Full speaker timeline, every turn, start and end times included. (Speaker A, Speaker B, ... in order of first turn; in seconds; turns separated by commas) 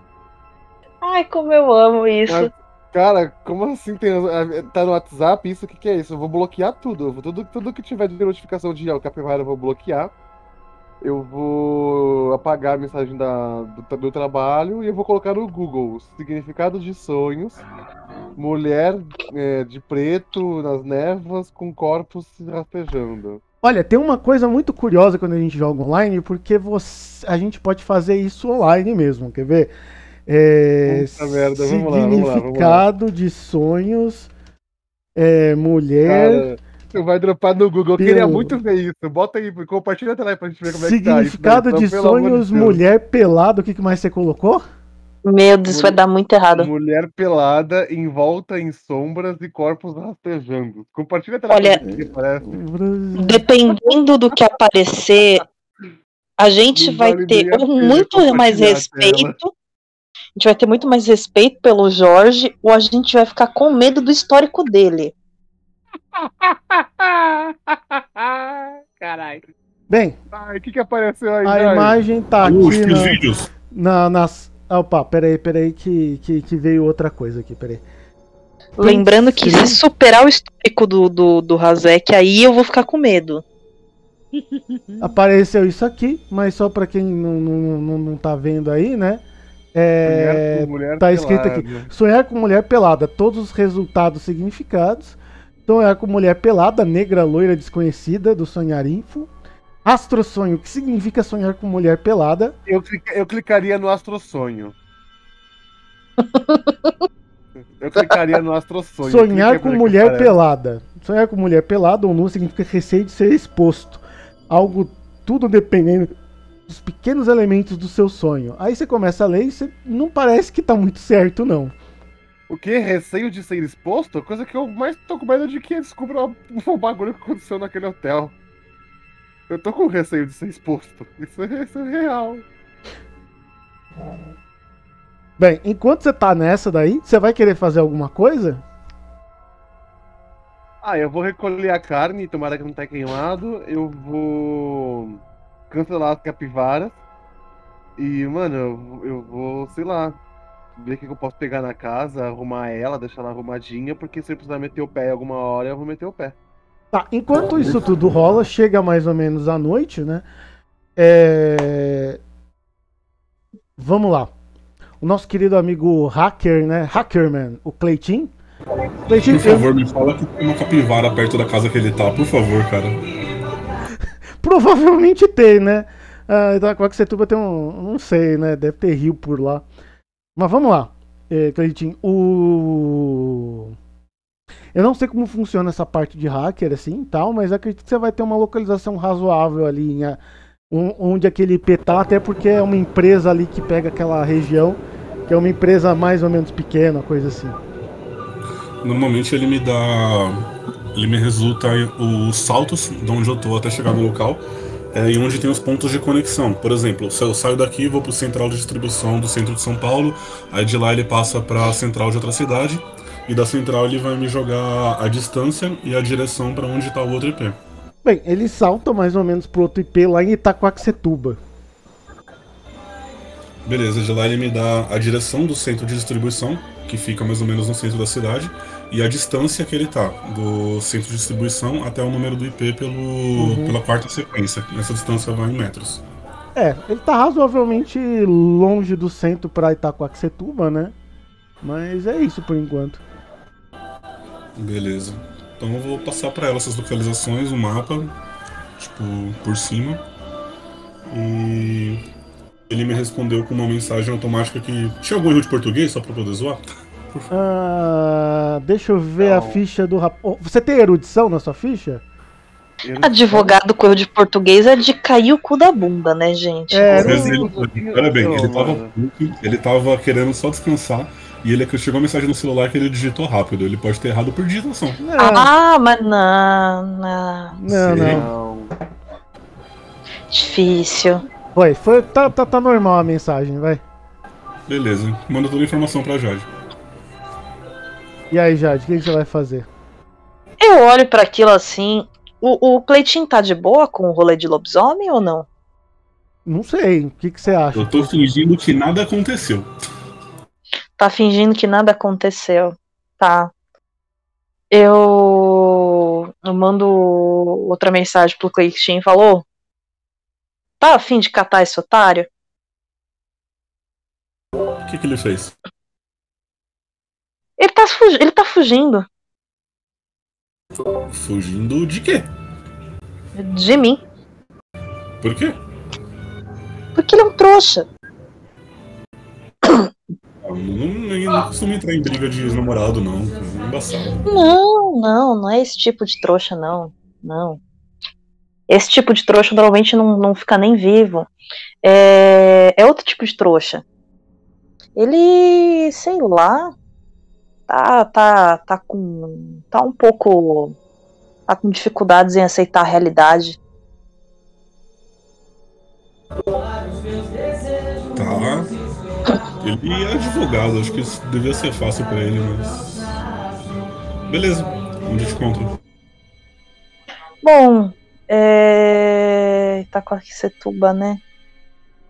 Speaker A: 1.0-2.5, Speaker B: 2.3-10.1, Speaker B: 11.0-17.6, Speaker B: 18.4-23.4, Speaker C: 23.6-29.7, Speaker C: 30.3-34.3, Speaker B: 30.9-32.8, Speaker C: 35.1-36.5, Speaker B: 36.0-42.8, Speaker C: 38.0-38.6, Speaker C: 40.6-44.6, Speaker A: 45.2-46.7, Speaker B: 45.6-46.0, Speaker B: 46.5-52.5, Speaker A: 51.5-51.8, Speaker C: 52.4-53.4, Speaker A: 53.2-55.4, Speaker A: 56.4-59.5, Speaker B: 56.7-59.3, Speaker A: 60.4-65.1, Speaker B: 66.1-69.5, Speaker C: 69.9-70.2, Speaker B: 70.3-72.0, Speaker C: 71.4-73.2, Speaker D: 72.4-73.5, Speaker C: 73.7-77.8, Speaker A: 78.8-83.4, Speaker C: 78.8-79.8, Speaker B: 84.3-85.1, Speaker C: 85.0-89.2, Speaker C: 89.7-99.3, Speaker B: 90.0-91.9, Speaker C: 99.8-102.5, Speaker B: 102.7-104.7, Speaker A: 106.2-106.9, Speaker B: 107.8-110.3, Speaker C: 109.0-116.1, Speaker C: 116.7-121.7, Speaker B: 122.5-128.3, Speaker B: 129.5-132.4, Speaker C: 135.4-138.6, Speaker B: 140.8-147.0, Speaker B: 148.0-150.2, Speaker B: 150.8-156.3, Speaker C: 156.9-160.2, Speaker C: 161.0-162.2, Speaker C: 163.8-164.3, Speaker C: 165.0-168.3, Speaker C: 169.1-169.7, Speaker D: 169.2-173.0, Speaker C: 174.4-179.6, Speaker C: 180.3-183.7, Speaker C: 184.7-197.6, Speaker D: 198.8-217.6, Speaker C: 218.0-221.4, Speaker D: 223.6-236.0, Speaker C: 233.3-233.8, Speaker C: 236.5-240.9, Speaker C: 241.6-243.0, Speaker D: 244.6-248.1, Speaker D: 248.8-250.0, Speaker D: 251.1-252.0, Speaker D: 252.7-257.3, Speaker C: 257.3-262.0, Speaker B: 259.2-259.6, Speaker B: 262.8-263.6, Speaker A: 263.0-267.1, Speaker C: 266.7-267.4, Speaker B: 266.9-268.9, Speaker D: 267.0-275.0, Speaker C: 275.0-275.5, Speaker A: 275.2-277.5, Speaker C: 277.5-278.3, Speaker D: 277.7-278.2, Speaker B: 277.9-278.7, Speaker A: 280.3-281.2, Speaker C: 281.5-283.8, Speaker D: 284.7-286.5, Speaker C: 288.3-289.7, Speaker A: 290.6-295.5, Speaker C: 296.4-298.3, Speaker D: 297.7-299.7, Speaker A: 301.0-303.5, Speaker A: 304.7-309.4, Speaker A: 310.8-312.3, Speaker D: 314.8-315.6, Speaker A: 317.6-319.1, Speaker D: 321.0-322.3, Speaker A: 323.4-324.0, Speaker D: 325.2-325.6, Speaker A: 326.9-327.9, Speaker A: 329.6-329.9, Speaker D: 330.4-334.2, Speaker A: 334.3-337.6, Speaker A: 338.7-341.3, Speaker A: 341.8-343.8, Speaker A: 344.9-346.7, Speaker A: 347.7-350.8, Speaker A: 351.5-353.6, Speaker D: 358.1-358.7, Speaker D: 359.6-363.2, Speaker D: 364.3-365.8, Speaker A: 367.4-371.2